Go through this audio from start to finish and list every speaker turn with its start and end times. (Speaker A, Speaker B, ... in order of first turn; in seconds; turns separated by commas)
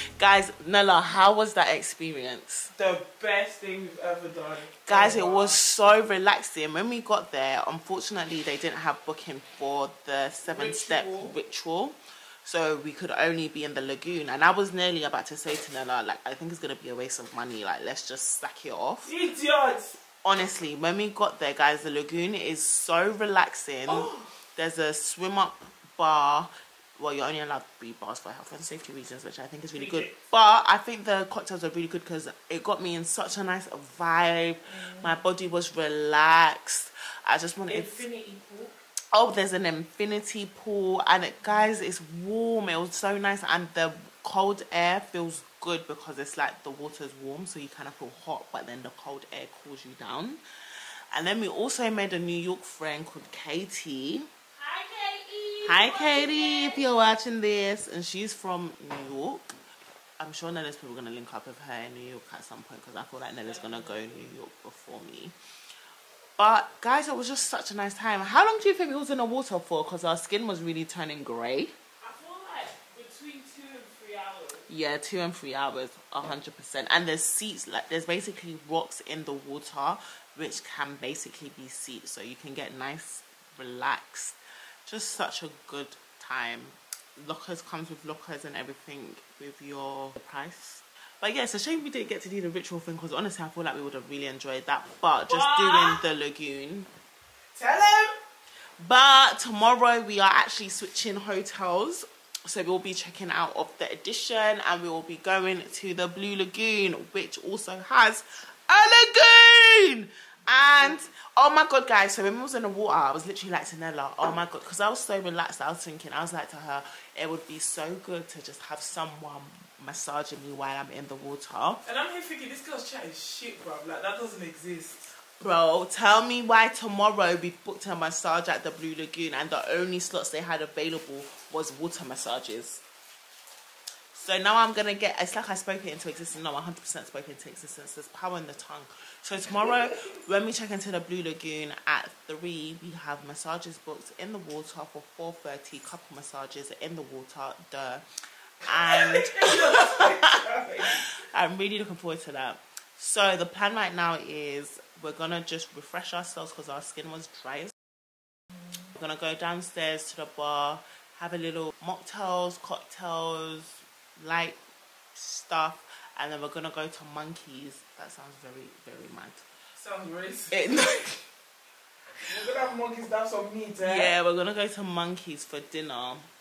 Speaker A: 0.1-2.7, Speaker B: 2.8-5.6, Speaker A: 4.8-19.1, Speaker B: 10.5-11.3, Speaker B: 19.0-20.0, Speaker A: 20.2-38.0, Speaker B: 23.9-24.3, Speaker B: 29.7-30.2, Speaker B: 34.7-35.2, Speaker B: 37.7-38.8, Speaker A: 39.1-50.4, Speaker A: 51.1-54.3, Speaker B: 54.5-56.9, Speaker A: 55.6-59.5, Speaker A: 60.2-65.3, Speaker B: 63.4-64.2, Speaker A: 66.4-71.7, Speaker B: 72.0-74.7, Speaker A: 74.7-96.9, Speaker B: 95.3-96.0, Speaker B: 97.5-98.2, Speaker A: 98.8-121.8, Speaker B: 121.8-125.1, Speaker A: 125.4-132.8, Speaker A: 134.1-148.1, Speaker A: 148.6-157.7, Speaker B: 148.8-151.1, Speaker A: 158.9-164.6, Speaker A: 165.1-169.4, Speaker B: 169.8-170.8, Speaker A: 170.5-171.2, Speaker B: 172.3-174.1, Speaker A: 173.8-176.3